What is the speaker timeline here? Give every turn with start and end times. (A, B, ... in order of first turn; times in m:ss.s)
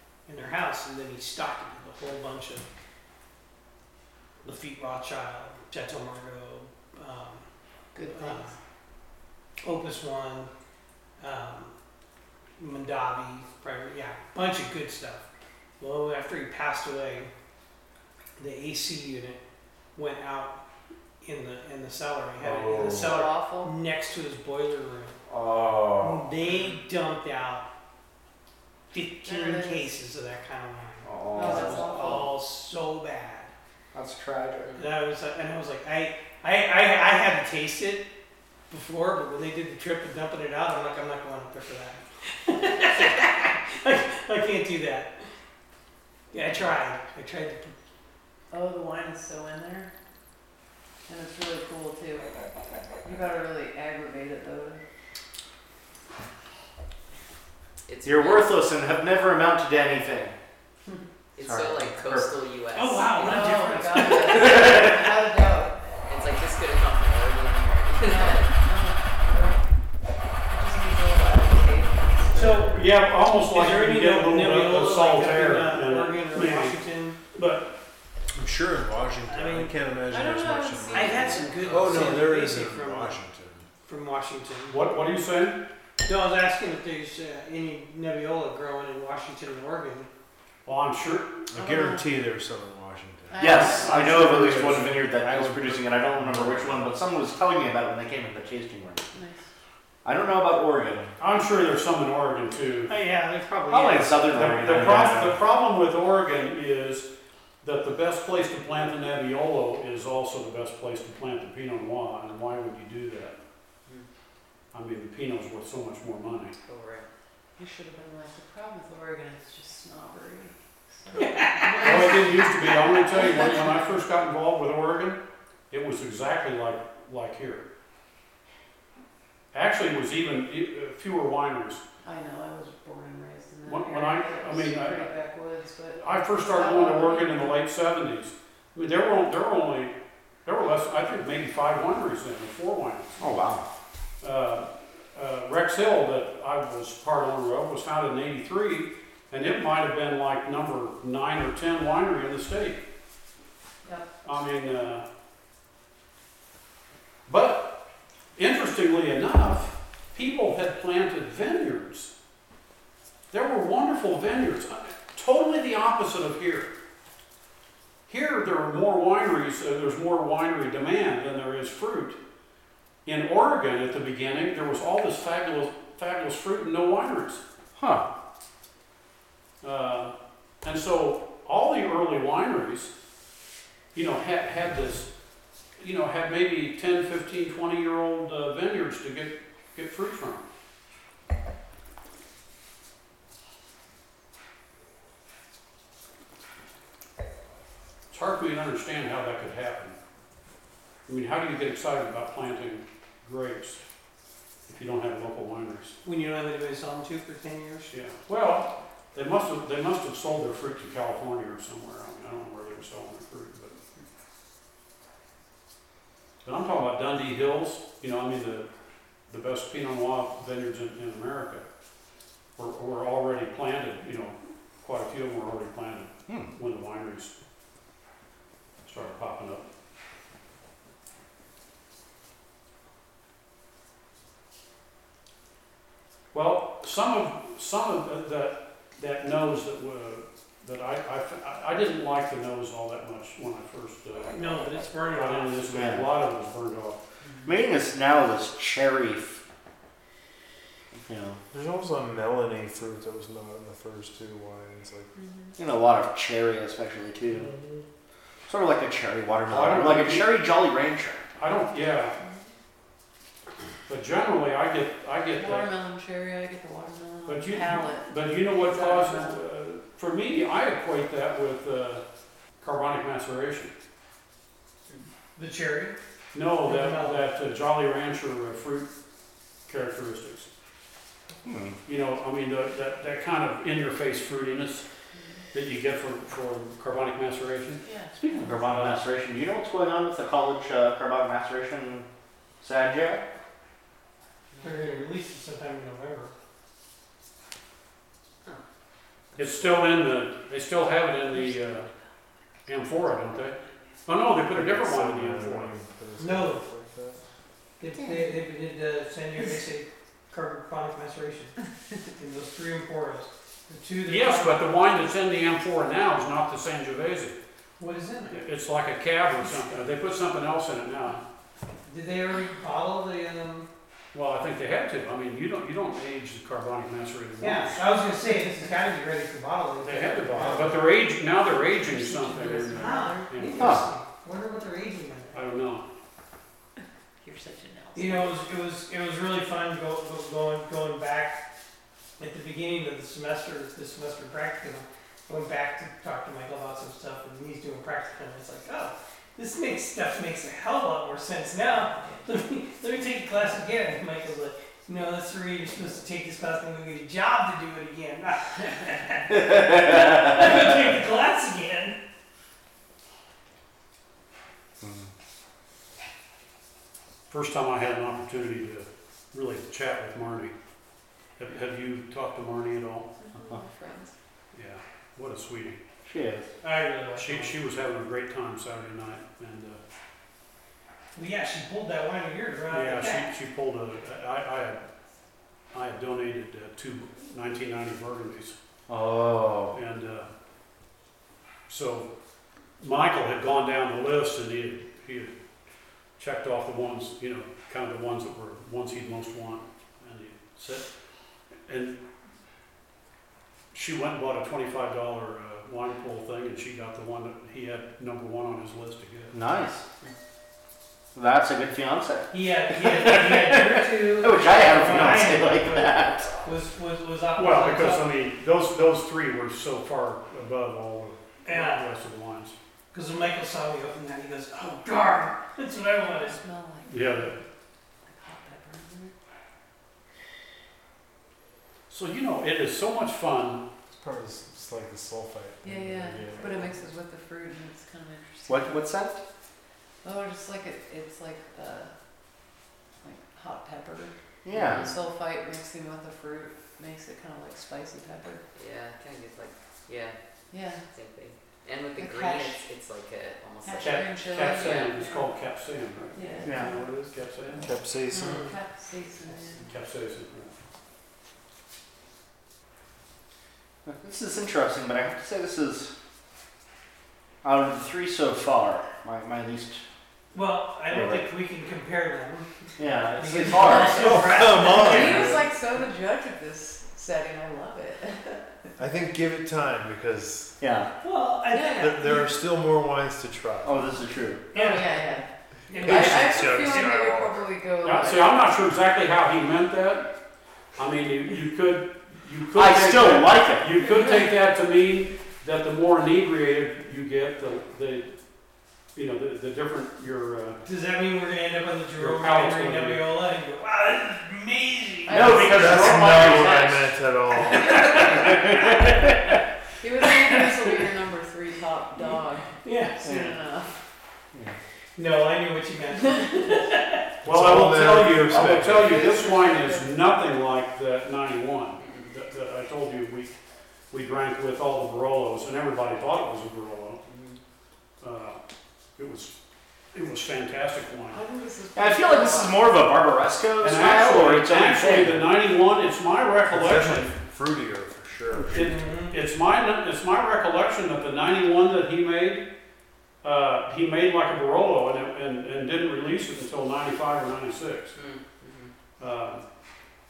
0:00.3-0:02.7 A
0:04.4-0:07.5 A
0:08.0-0:08.6 B
0:08.1-0:08.5 A
0:09.6-0:10.5 A
0:11.2-0:11.8 A
0:12.6-0:15.3 A
0:15.8-0:17.3 A
0:18.4-0:19.4 A
0:20.0-0:20.6 A
0:21.2-0:25.2 A
0:22.4-0:23.2 C
0:22.7-0:23.7 B
0:25.3-0:26.2 D
0:26.0-0:27.7 A
0:28.9-0:33.5 A
0:29.2-0:29.9 B
0:31.0-0:32.3 D
0:31.3-0:32.3 B
0:33.9-0:34.8 D
0:34.6-0:34.9 E
0:34.8-0:38.1 A
0:38.7-0:45.2 A
0:46.3-0:47.8 A
0:48.5-0:49.9 B
0:51.1-0:52.3 B
0:53.0-0:54.8 B
0:57.9-0:58.6 E
0:58.0-1:00.4 D
1:01.4-1:03.6 E
1:01.4-1:02.3 D
1:02.8-1:04.7 A
1:03.2-1:05.8 B
1:06.0-1:08.5 E
1:08.0-1:09.6 B
1:10.5-1:12.8 B
1:12.3-1:12.8 A
1:12.7-1:16.8 F
1:13.5-1:17.2 A
1:17.3-1:17.8 F
1:18.3-1:23.7 C
1:19.3-1:19.7 A
1:20.1-1:22.1 B
1:20.9-1:23.2 A
1:23.8-1:24.8 A
1:24.7-1:25.6 F
1:26.0-1:30.1 A
1:30.6-1:31.4 F
1:31.5-1:33.5 C
1:31.6-1:32.1 B
1:33.3-1:34.2 B
1:33.4-1:36.9 F
1:33.4-1:39.1 D
1:39.1-1:39.4 B
1:40.0-1:41.1 D
1:41.2-1:42.9 F
1:42.9-1:45.0 A
1:43.6-1:45.4 D
1:44.3-1:47.1 F
1:47.6-1:53.4 F
1:54.7-1:56.6 F
1:56.6-1:57.1 E
1:57.6-2:04.0 B
2:01.2-2:02.2 A
2:01.8-2:05.2 F
2:05.7-2:07.7 F
2:09.5-2:11.8 F
2:12.0-2:17.6 B
2:13.7-2:15.1 F
2:16.0-2:23.2 F
2:23.2-2:23.7 D
2:24.2-2:32.8 F
2:34.2-2:35.0 F
2:37.3-2:37.7 F
2:38.4-2:42.1 F
2:43.3-2:46.7 F
2:48.1-2:52.2 F
2:53.1-2:57.4 F
2:57.8-2:58.1 D
2:59.6-3:02.9 F
3:03.9-3:05.1 F
3:05.8-3:10.4 F
3:18.1-3:20.0 F
3:21.1-3:23.8 F
3:24.7-3:26.0 F
3:26.0-3:27.9 A
3:27.9-3:33.8 F
3:36.4-3:38.7 F
3:39.3-3:41.6 F
3:42.6-3:47.3 F
3:48.8-3:49.6 F
3:56.3-4:07.0 F
4:04.3-4:05.7 A
4:05.7-4:06.1 D
4:07.4-4:09.4 D
4:11.0-4:11.4 D
4:11.5-4:15.1 C
4:15.2-4:15.5 B
4:15.6-4:17.5 D
4:18.5-4:21.2 D
4:19.5-4:20.3 F
4:21.4-4:22.2 F
4:23.9-4:25.7 F
4:25.4-4:29.3 B
4:27.3-4:32.0 F
4:32.6-4:33.7 F
4:35.4-4:36.0 A
4:36.3-4:38.9 F
4:36.6-4:37.3 A
4:39.7-4:40.5 F
4:41.4-4:41.8 D
4:41.9-4:44.8 F
4:45.5-4:47.8 F
4:47.8-4:48.4 B
4:48.2-4:52.1 D
4:48.4-4:49.0 F
4:52.6-4:53.2 D
4:54.5-4:55.0 E
4:54.6-4:56.3 A
4:59.4-4:59.8 E
4:59.4-5:01.9 F
5:02.7-5:03.6 F
5:04.1-5:05.7 F
5:04.5-5:07.2 C
5:06.2-5:06.6 A
5:07.8-5:14.7 A
5:14.1-5:17.4 F
5:17.8-5:18.4 A
5:18.3-5:21.2 F
5:21.9-5:23.7 A
5:24.1-5:27.9 F
5:27.4-5:30.9 A
5:29.8-5:33.8 F
5:31.6-5:33.6 B
5:32.6-5:35.4 A
5:33.6-5:33.9 D
5:35.3-5:35.9 F
5:37.2-5:38.4 B
5:38.0-5:41.4 A
5:42.2-6:02.0 A
6:04.8-6:05.1 D
6:07.3-6:10.5 F
6:11.4-6:13.1 F
6:13.2-6:14.1 B
6:14.5-6:15.8 F
6:16.1-6:16.5 D
6:16.6-6:17.6 A
6:17.2-6:19.8 F
6:21.2-6:23.3 A
6:22.7-6:24.8 F
6:25.7-6:28.6 F
6:28.9-6:29.8 D
6:29.7-6:30.3 F
6:31.7-6:32.1 F
6:32.8-6:35.3 F
6:36.2-6:40.9 F
6:41.7-6:42.0 F
6:43.7-6:49.4 F
6:49.3-6:49.8 D
6:51.2-6:56.3 D
6:52.3-6:58.1 A
6:57.4-7:02.6 F
7:01.4-7:01.8 A
7:02.9-7:06.4 A
7:06.0-7:07.4 B
7:06.9-7:07.4 F
7:08.1-7:09.1 B
7:11.9-7:13.6 F
7:13.9-7:16.9 C
7:15.6-7:18.8 B
7:18.5-7:19.2 D
7:20.0-7:21.9 B
7:23.0-7:28.4 B
7:24.4-7:24.9 D
7:24.5-7:25.0 E
7:28.6-7:30.2 E
7:30.5-7:30.8 B
7:30.9-7:35.0 E
7:32.0-7:32.6 B
7:33.6-7:35.3 B
7:33.8-7:37.7 F
7:36.1-7:36.9 B
7:36.4-7:36.7 D
7:37.5-7:39.7 B
7:37.6-7:38.4 C
7:39.6-7:40.5 F
7:43.9-7:45.9 D
7:47.4-7:49.8 D
7:50.3-7:52.5 A
7:50.9-7:51.3 D
7:52.8-7:55.2 D
7:53.2-7:55.3 A
7:53.6-7:58.5 B
7:53.8-7:55.5 C
7:58.8-8:00.6 C
8:00.6-8:00.9 D
8:01.0-8:02.2 A
8:01.5-8:02.0 B
8:01.8-8:03.8 C
8:03.6-8:04.5 D
8:04.5-8:05.0 A
8:04.5-8:08.4 B
8:05.7-8:06.5 A
8:05.7-8:07.5 C
8:07.8-8:10.1 F
8:10.8-8:18.1 F
8:12.6-8:13.7 D
8:19.0-8:20.6 F
8:20.6-8:25.4 A
8:22.0-8:23.1 F
8:25.0-8:26.3 B
8:25.1-8:26.9 D
8:25.3-8:28.2 C
8:27.6-8:28.9 A
8:28.0-8:28.7 D
8:29.8-8:33.7 B
8:32.6-8:33.0 A
8:33.0-8:33.4 D
8:35.0-8:37.1 A
8:37.2-8:39.0 C
8:37.2-8:43.4 F
8:38.6-8:40.0 B
8:41.8-8:42.2 E
8:43.9-8:47.0 F
8:47.0-8:47.4 E
8:48.0-8:48.4 F
8:49.0-8:49.3 F
8:49.9-8:51.2 F
8:51.1-8:52.6 B
8:51.8-8:55.2 D
8:53.6-8:57.1 F
8:56.5-8:58.8 C
8:58.5-9:02.4 F
8:58.6-8:59.2 A
9:03.2-9:08.0 F
9:07.9-9:08.7 E
9:09.0-9:09.4 F